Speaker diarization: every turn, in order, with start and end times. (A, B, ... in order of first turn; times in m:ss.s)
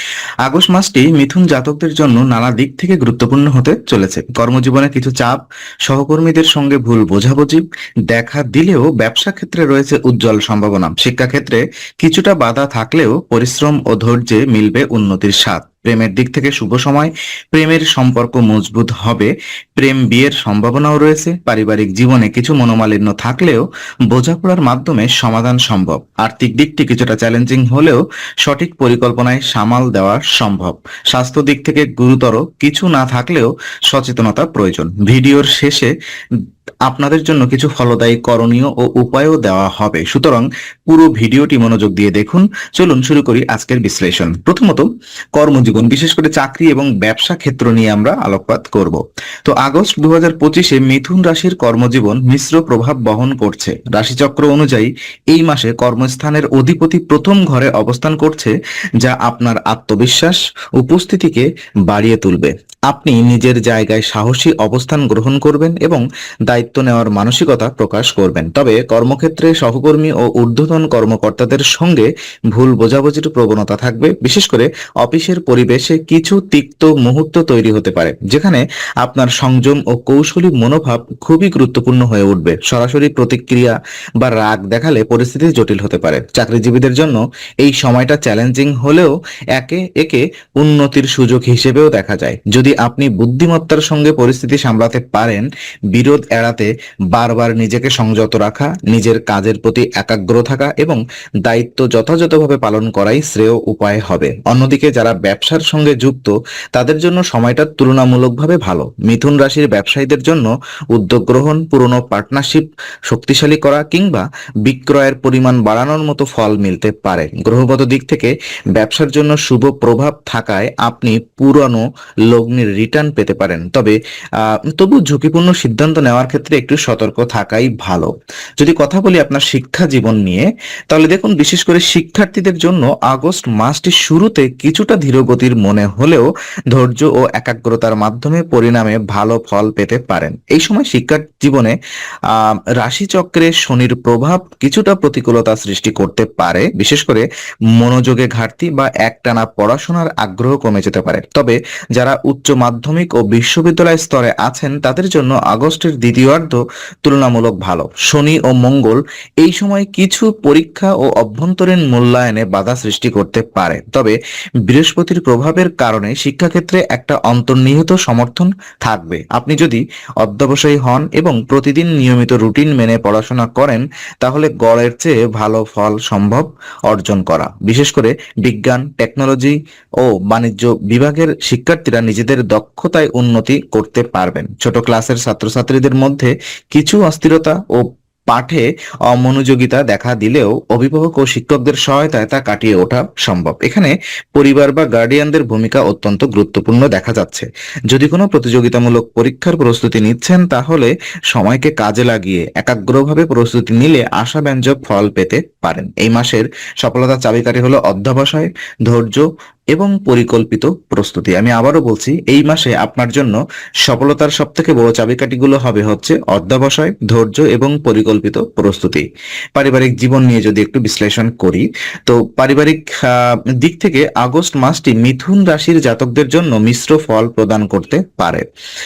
0:00.4-0:35.9 A
0:36.9-2:21.8 A
2:22.3-3:39.0 A
3:39.6-3:48.4 A